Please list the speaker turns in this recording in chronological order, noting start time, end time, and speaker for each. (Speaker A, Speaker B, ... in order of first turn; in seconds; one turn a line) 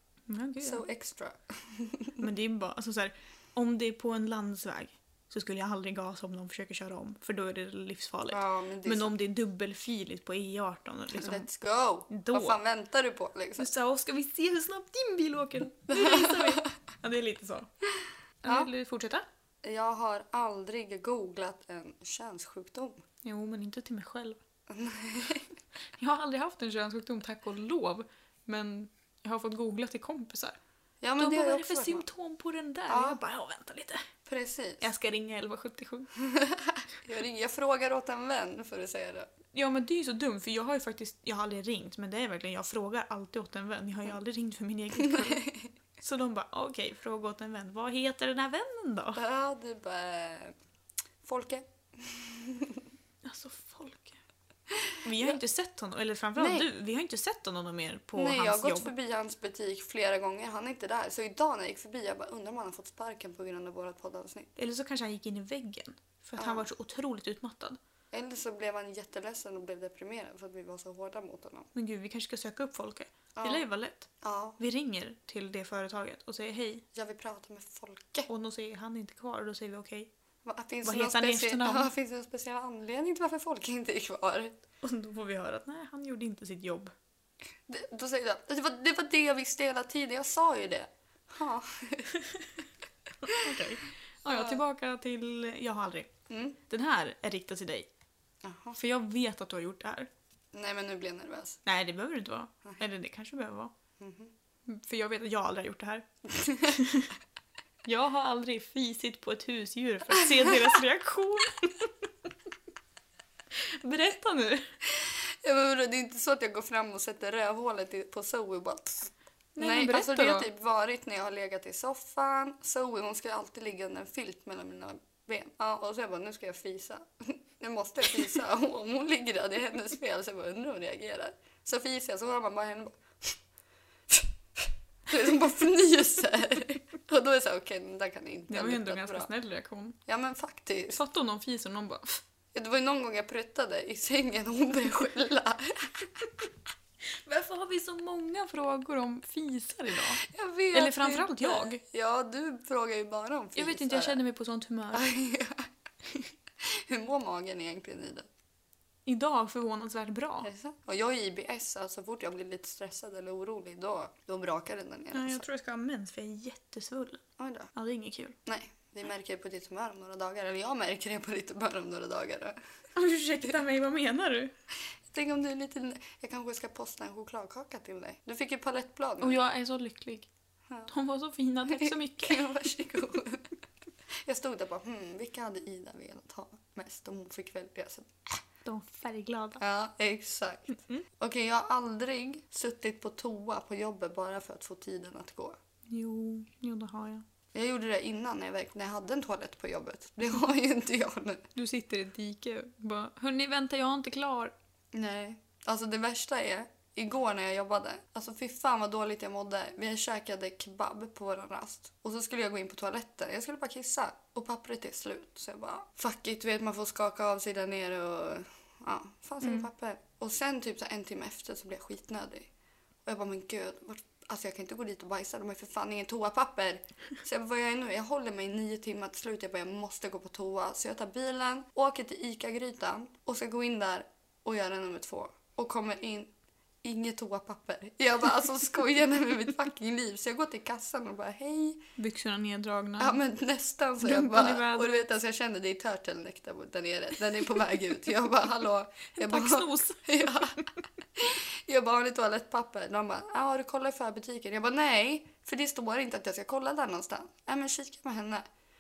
Speaker A: 0.3-0.8
Speaker B: 0.6-2.2
Speaker A: 2.2-11.5
Speaker B: 8.3-9.1
Speaker B: 11.1-13.7
Speaker A: 12.1-12.6
Speaker A: 13.6-17.7
Speaker B: 15.9-16.7
Speaker A: 18.4-19.2
Speaker B: 19.6-23.0
Speaker A: 23.2-24.4
Speaker B: 24.7-25.5
Speaker A: 26.0-30.6
Speaker B: 31.0-32.1
Speaker A: 31.2-34.1
Speaker B: 32.9-33.2
Speaker B: 34.3-34.8
Speaker A: 34.8-36.1
Speaker B: 36.2-39.3
Speaker A: 39.5-49.2
Speaker B: 45.1-45.6
Speaker B: 49.2-50.5
Speaker B: 51.2-52.8
Speaker A: 53.2-54.2
Speaker B: 54.8-55.4
Speaker A: 55.0-58.9
Speaker B: 56.4-56.7
Speaker B: 58.2-64.5
Speaker A: 64.6-67.8
Speaker B: 66.4-66.7
Speaker B: 68.1-71.7
Speaker A: 71.7-76.8
Speaker B: 73.3-73.7
Speaker B: 74.2-74.6
Speaker B: 76.9-78.3
Speaker A: 78.3-80.1
Speaker B: 80.5-84.6
Speaker A: 80.8-81.9
Speaker A: 84.8-86.9
Speaker B: 87.7-92.1
Speaker A: 93.2-96.1
Speaker B: 94.3-94.6
Speaker B: 96.3-96.6
Speaker A: 96.7-97.9
Speaker B: 98.4-98.8
Speaker A: 98.7-100.1
Speaker B: 100.5-101.6
Speaker A: 101.7-103.7
Speaker B: 104.0-104.3
Speaker A: 104.7-107.2
Speaker B: 106.4-106.8
Speaker A: 107.8-111.9
Speaker B: 110.2-110.8
Speaker A: 113.5-114.7
Speaker B: 114.9-133.4
Speaker A: 119.6-120.5
Speaker B: 134.1-139.3
Speaker A: 138.5-140.0
Speaker B: 140.1-141.0
Speaker A: 140.9-142.2
Speaker B: 142.5-146.5
Speaker A: 147.3-151.8
Speaker B: 150.2-154.2
Speaker A: 153.6-155.1
Speaker B: 154.9-155.7
Speaker B: 156.6-158.3
Speaker A: 159.1-160.5
Speaker B: 160.4-165.4
Speaker A: 165.1-167.2
Speaker B: 167.4-167.7
Speaker A: 167.7-168.4
Speaker B: 168.5-172.6
Speaker A: 172.9-174.5
Speaker B: 175.1-179.4
Speaker A: 179.2-180.3
Speaker A: 180.9-182.5
Speaker B: 181.7-183.5
Speaker B: 184.1-188.4
Speaker A: 188.7-189.6
Speaker B: 189.6-195.6
Speaker A: 190.7-191.1
Speaker A: 195.9-197.2
Speaker B: 197.5-201.5
Speaker A: 201.6-204.5
Speaker B: 204.9-222.5
Speaker A: 219.4-219.7
Speaker B: 223.1-236.3
Speaker B: 236.8-241.8
Speaker A: 242.0-243.2
Speaker B: 243.0-250.6
Speaker A: 244.0-245.0
Speaker A: 249.2-250.6
Speaker B: 251.2-258.4